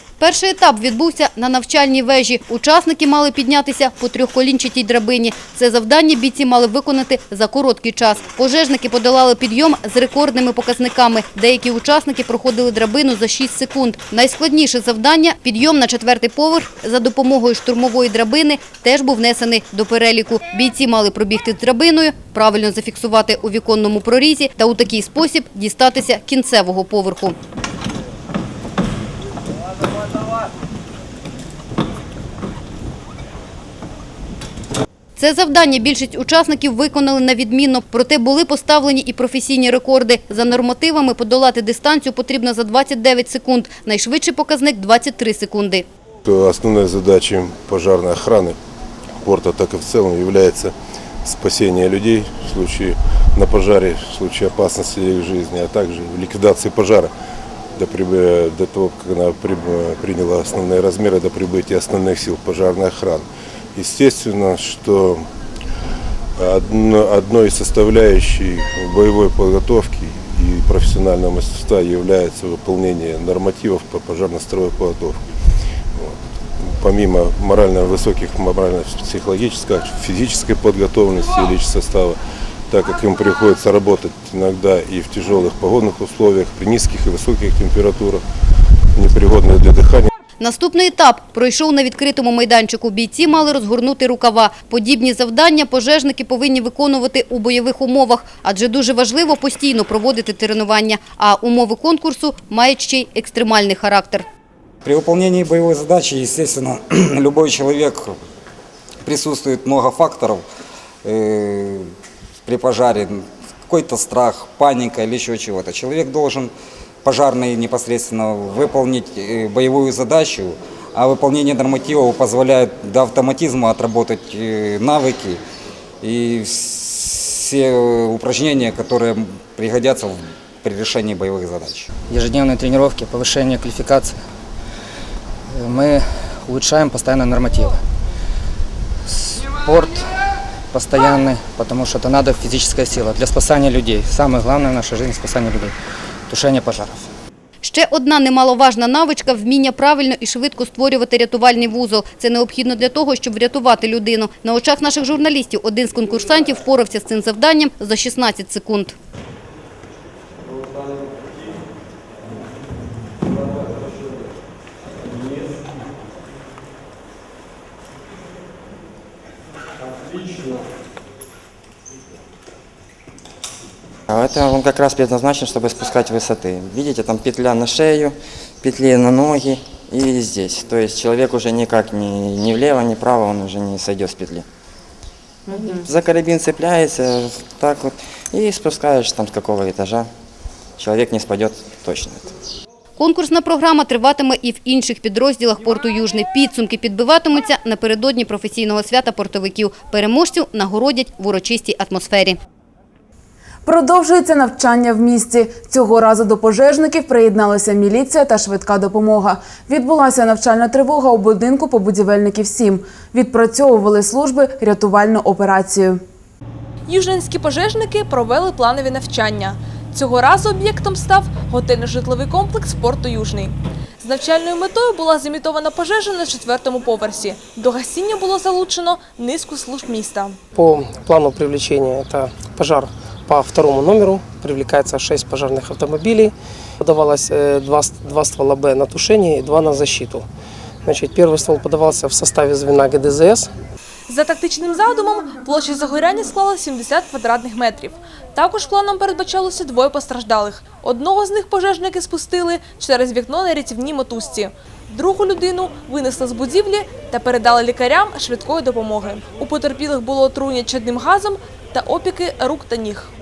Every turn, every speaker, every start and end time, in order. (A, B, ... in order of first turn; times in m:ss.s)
0:00.2-0:27.3 A
0:35.2-0:45.8 A
0:46.2-0:48.6 B
0:49.2-0:50.7 B
0:51.2-0:57.1 B
0:57.8-1:05.3 B
1:06.4-1:15.2 B
1:16.0-1:22.2 B
1:22.7-1:28.2 B
1:29.0-1:30.1 B
1:30.4-1:44.2 A
1:44.8-1:48.0 C
1:49.0-1:50.4 C
1:51.0-1:51.8 C
1:52.4-1:56.5 C
1:57.0-2:05.4 C
2:06.0-2:11.9 C
2:12.1-2:14.2 D
2:15.5-2:17.8 D
2:19.1-2:20.0 D
2:20.7-2:25.7 D
2:26.3-2:27.1 D
2:27.6-2:38.9 A
2:54.1-3:04.4 E
3:05.8-3:10.1 E
3:10.8-3:12.3 E
3:13.0-3:22.4 A
3:23.6-3:36.0 F
3:36.9-3:50.3 G
3:50.5-4:00.2 H
4:00.8-4:03.5 H
4:04.1-4:22.9 G